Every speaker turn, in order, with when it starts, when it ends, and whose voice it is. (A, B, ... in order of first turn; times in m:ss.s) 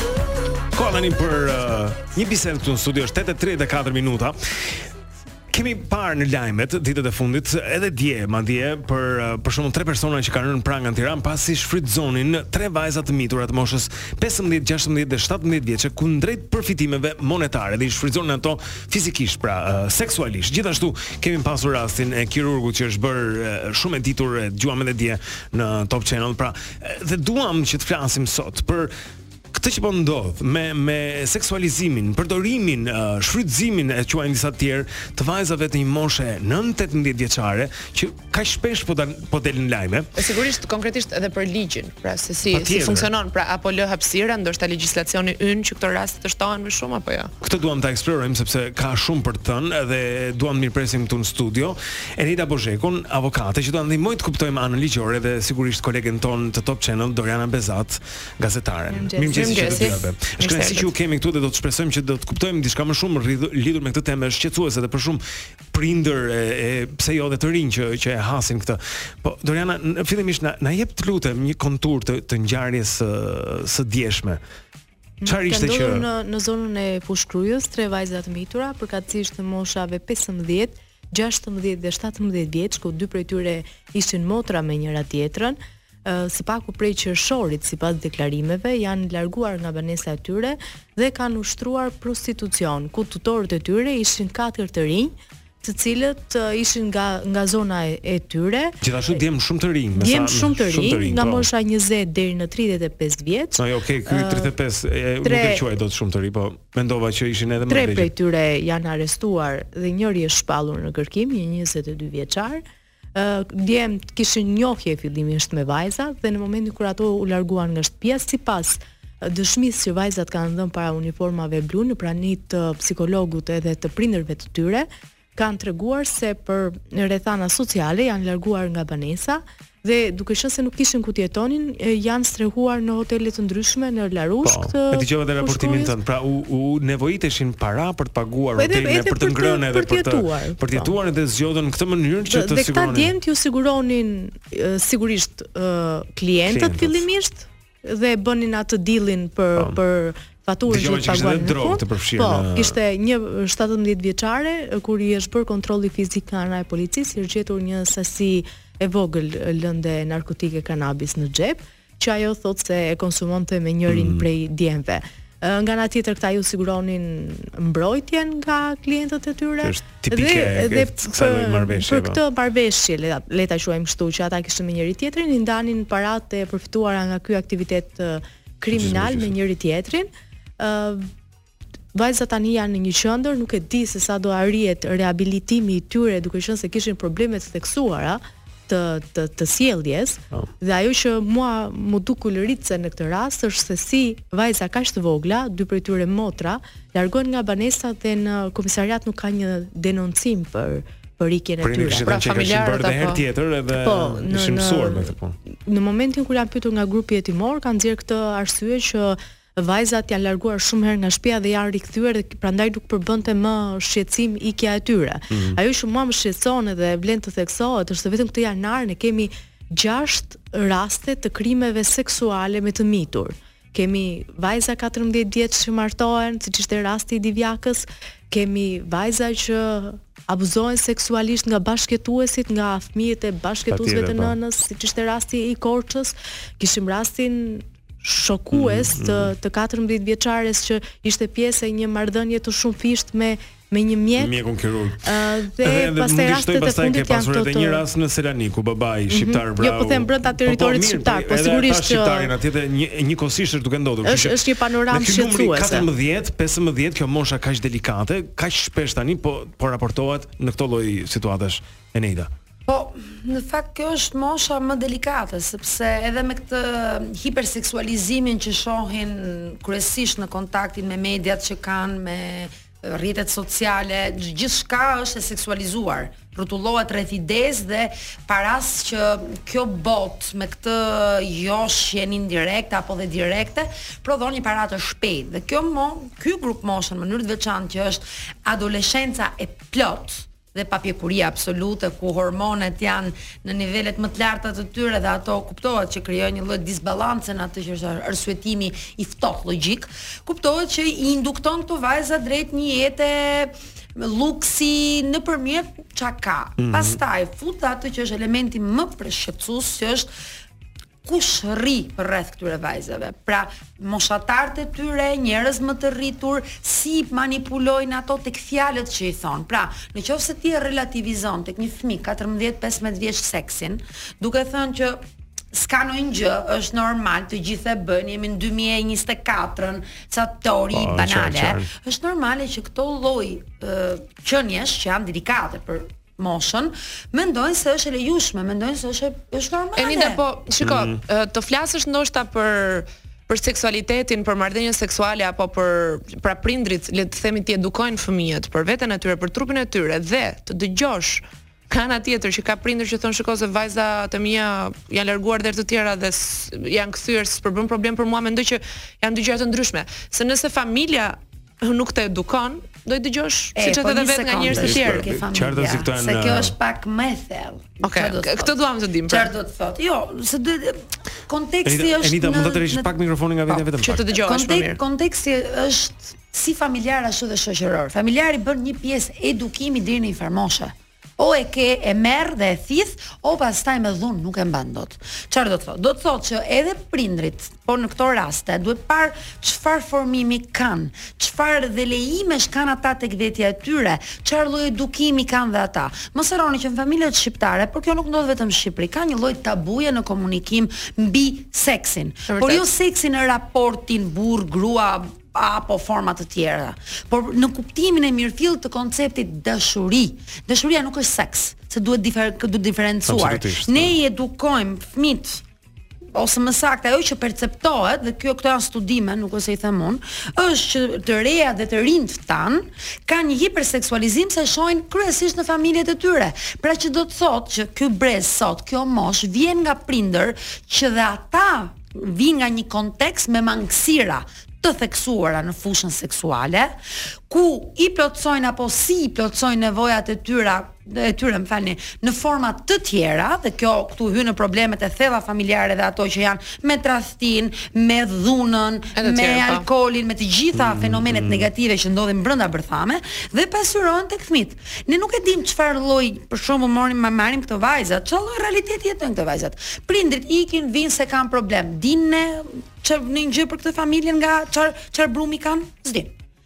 0:00.7-0:04.4 A
0:05.5-0:28.9 A
0:29.5-0:40.1 A
0:40.2-0:47.3 B
0:42.5-0:43.1 A
0:47.4-1:14.4 A
0:58.9-1:00.0 C
0:59.3-1:00.9 B
1:15.2-1:38.8 C
1:15.2-1:16.1 A
1:38.8-1:41.5 A
1:40.0-1:44.5 C
1:43.6-1:48.1 A
1:45.2-1:45.6 C
1:47.7-1:52.6 C
1:53.2-2:16.0 C
2:14.4-2:23.2 A
2:18.6-2:20.9 C
2:22.3-3:01.1 C
2:26.5-2:27.0 A
2:30.7-2:32.8 A
2:43.9-2:44.3 A
2:49.6-2:52.2 A
2:58.7-2:59.3 A
3:01.9-3:22.1 C
3:21.6-3:25.4 A
3:22.0-3:23.2 B
3:23.7-3:25.1 C
3:25.7-4:04.4 C
3:35.3-3:35.6 A
3:53.7-3:54.4 A
3:58.5-3:59.3 A
4:04.2-4:22.3 A
4:05.0-4:07.8 C
4:09.1-4:12.3 C
4:14.0-4:15.9 C
4:22.7-5:10.1 D
5:06.6-5:07.0 A
5:11.0-5:25.0 D
5:25.5-5:40.2 D
5:30.7-5:31.7 A
5:39.8-6:05.1 B
5:40.6-5:41.0 A
6:03.6-6:08.5 D
6:04.5-6:06.6 A
6:07.8-6:09.3 B
6:09.1-6:12.9 D
6:11.6-6:14.2 A
6:13.5-6:55.4 D
6:13.6-6:14.8 B
6:42.3-6:42.7 B
6:53.0-6:54.0 A
6:56.1-7:16.8 D
7:17.3-7:46.1 D
7:29.0-7:29.7 B
7:30.5-7:31.5 A